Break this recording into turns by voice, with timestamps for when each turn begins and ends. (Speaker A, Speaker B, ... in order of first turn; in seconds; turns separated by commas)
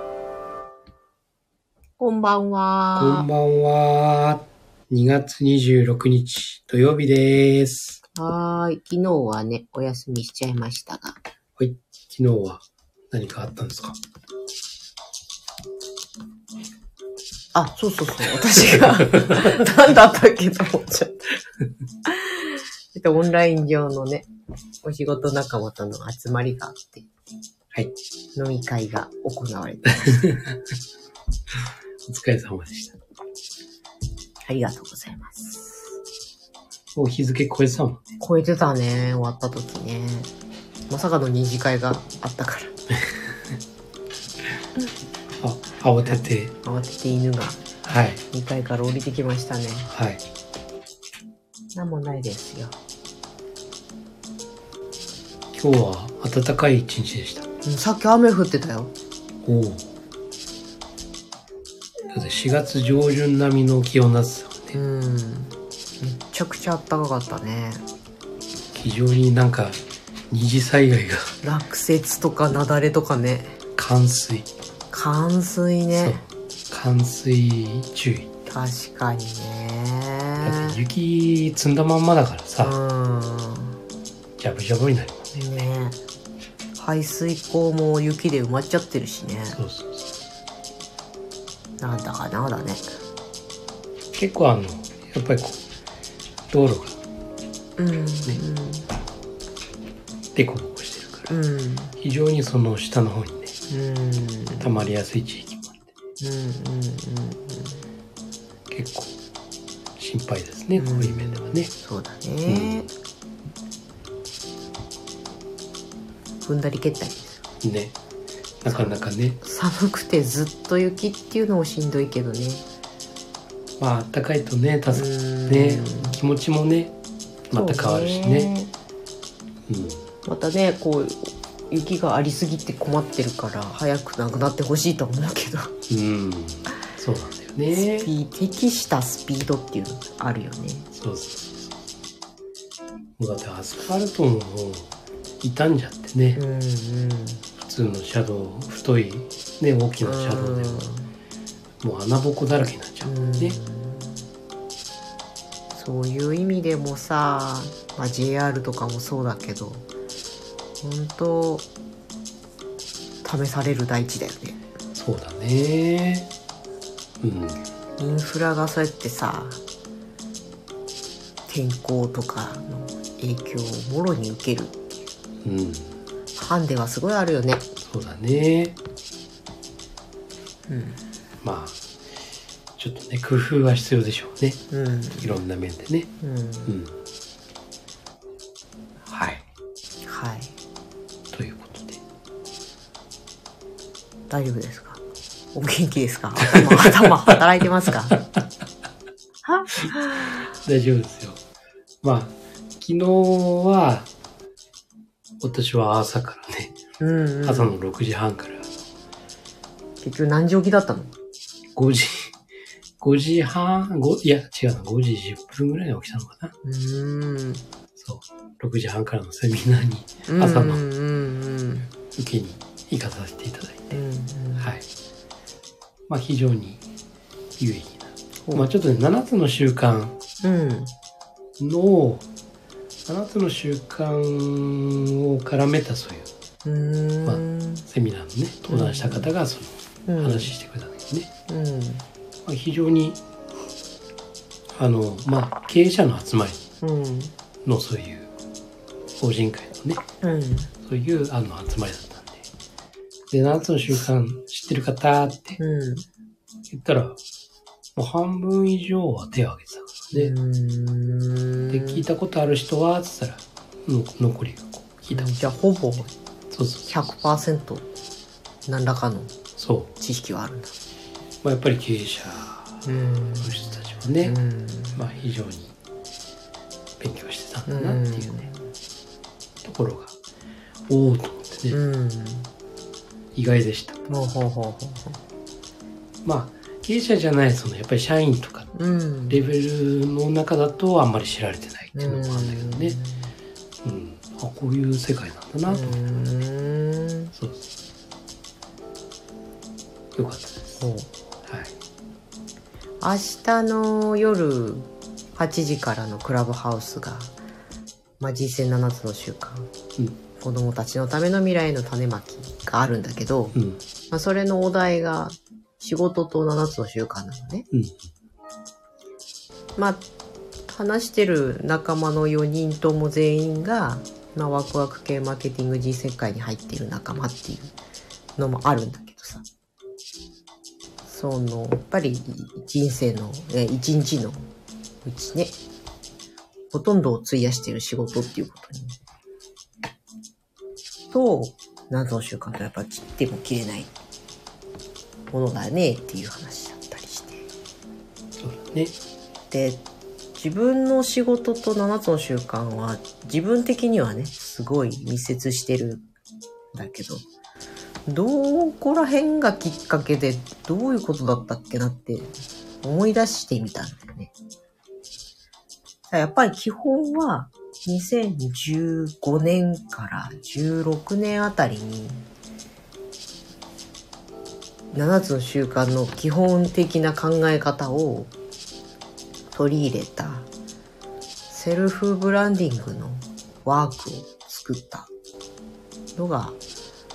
Speaker A: 2.0-3.3, Speaker B: 3.0-8.0, Speaker A: 8.2-11.2, Speaker B: 11.6-14.0, Speaker A: 17.5-21.3, Speaker A: 22.1-24.3, Speaker A: 24.8-27.1, Speaker A: 28.4-30.3, Speaker B: 30.1-30.6, Speaker B: 32.1-33.0, Speaker A: 34.5-35.9, Speaker B: 37.0-38.0, Speaker A: 38.2-40.3, Speaker A: 40.9-42.8, Speaker B: 42.9-43.2, Speaker B: 45.4-46.5, Speaker A: 46.0-47.7, Speaker B: 47.9-48.2, Speaker A: 48.3-49.9, Speaker B: 49.9-50.2, Speaker A: 51.7-52.8, Speaker B: 55.5-57.5, Speaker A: 57.6-58.9, Speaker B: 59.4-59.9, Speaker B: 62.1-64.8, Speaker A: 64.7-67.8, Speaker B: 68.7-71.3, Speaker A: 71.4-73.6, Speaker B: 73.8-74.5, Speaker A: 74.9-76.2, Speaker B: 75.9-78.3, Speaker A: 78.5-80.8, Speaker B: 80.4-82.8, Speaker A: 82.6-83.8, Speaker B: 84.4-85.7, Speaker A: 85.3-86.0, Speaker A: 86.8-89.6, Speaker B: 89.5-90.1, Speaker A: 91.8-92.8, Speaker B: 94.2-95.6, Speaker B: 96.5-97.0, Speaker A: 97.8-98.9, Speaker B: 100.3-101.4, Speaker A: 101.3-102.0, Speaker B: 102.0-103.5, Speaker A: 103.7-104.8, Speaker B: 104.6-105.9, Speaker A: 106.2-107.8, Speaker B: 108.7-109.2, Speaker B: 110.0-111.7, Speaker A: 110.8-112.9, Speaker B: 112.5-112.9, Speaker A: 116.4-117.4, Speaker B: 117.6-118.0, Speaker B: 118.6-119.4, Speaker A: 118.7-122.7, Speaker B: 123.8-127.0, Speaker A: 124.9-126.2, Speaker B: 127.5-128.5, Speaker A: 127.5-128.7, Speaker B: 129.7-130.0, Speaker A: 130.2-135.8, Speaker B: 135.9-138.1, Speaker A: 137.7-140.9, Speaker B: 140.9-141.8, Speaker B: 143.2-146.4, Speaker A: 146.4-147.4, Speaker B: 147.6-150.9, Speaker A: 150.0-151.1, Speaker B: 151.8-153.6, Speaker A: 153.0-154.2, Speaker A: 155.7-159.9, Speaker A: 160.8-161.7, Speaker A: 163.2-164.6, Speaker B: 165.0-166.3, Speaker B: 167.2-167.6, Speaker A: 168.0-169.6, Speaker A: 171.5-174.8, Speaker B: 175.4-176.0, Speaker A: 176.3-177.7, Speaker B: 177.8-178.8, Speaker A: 180.7-181.0, Speaker B: 181.4-181.8, Speaker B: 182.8-184.6, Speaker A: 184.7-185.4, Speaker B: 185.2-186.1, Speaker A: 186.2-186.8, Speaker B: 186.7-186.9, Speaker B: 189.1-189.4, Speaker A: 190.1-190.5, Speaker B: 191.3-192.0, Speaker A: 194.3-195.0, Speaker A: 195.5-198.2, Speaker B: 196.7-197.1, Speaker A: 199.4-200.5, Speaker B: 200.3-201.4, Speaker B: 202.0-204.1, Speaker B: 205.4-206.8, Speaker A: 207.0-207.8, Speaker B: 207.4-208.7, Speaker A: 210.0-211.1, Speaker B: 211.8-212.3, Speaker B: 213.0-216.5, Speaker A: 216.6-217.6, Speaker B: 217.9-220.8, Speaker A: 220.3-221.9, Speaker B: 222.2-223.9, Speaker A: 223.9-224.7, Speaker B: 224.6-224.8, Speaker B: 226.1-226.8, Speaker B: 227.6-230.2, Speaker A: 228.5-228.7, Speaker A: 230.4-230.9, Speaker B: 231.6-232.3, Speaker B: 233.1-236.3, Speaker A: 236.6-237.8, Speaker B: 237.2-241.3, Speaker A: 238.7-239.3, Speaker A: 240.1-240.6, Speaker A: 241.5-242.1, Speaker B: 242.4-243.2, Speaker B: 244.7-246.6, Speaker A: 246.8-247.3, Speaker B: 247.7-248.3, Speaker B: 249.2-250.0, Speaker A: 250.2-250.7, Speaker B: 250.8-252.5, Speaker B: 253.3-255.6, Speaker A: 255.6-256.1, Speaker B: 256.7-257.2, Speaker B: 258.0-260.3, Speaker A: 260.1-262.1, Speaker B: 261.7-265.6, Speaker A: 265.1-266.1, Speaker B: 266.5-267.3, Speaker A: 266.9-267.9, Speaker A: 268.7-269.4, Speaker B: 269.6-269.9, Speaker A: 270.0-270.7, Speaker B: 271.4-274.4, Speaker A: 272.9-275.0, Speaker B: 274.9-275.7, Speaker B: 277.0-278.5, Speaker A: 277.7-278.5, Speaker B: 279.6-280.2, Speaker B: 280.9-281.8, Speaker A: 281.7-282.5, Speaker B: 283.4-284.0, Speaker A: 284.1-285.2, Speaker B: 286.2-288.8, Speaker A: 288.8-289.4, Speaker B: 289.3-293.0, Speaker A: 291.9-293.3, Speaker B: 293.8-296.1, Speaker A: 295.7-297.3, Speaker B: 297.4-297.6, Speaker B: 300.1-300.9, Speaker A: 300.8-301.1, Speaker B: 301.5-301.7, Speaker A: 303.0-307.4, Speaker A: 308.2-309.7, Speaker A: 310.4-313.6, Speaker B: 313.6-313.8, Speaker A: 314.1-317.7, Speaker B: 317.7-318.0, Speaker A: 319.8-320.1, Speaker A: 320.7-327.7, Speaker A: 328.4-329.5, Speaker A: 331.1-334.5, Speaker A: 335.0-335.6, Speaker A: 336.7-339.0, Speaker A: 341.1-343.9, Speaker A: 345.3-347.4, Speaker B: 348.4-349.0, Speaker A: 349.5-349.8, Speaker A: 350.4-356.1, Speaker A: 356.7-357.2, Speaker A: 358.1-364.3, Speaker A: 366.1-372.3, Speaker A: 374.9-378.3, Speaker A: 379.5-380.5, Speaker A: 381.5-385.1, Speaker A: 386.1-386.6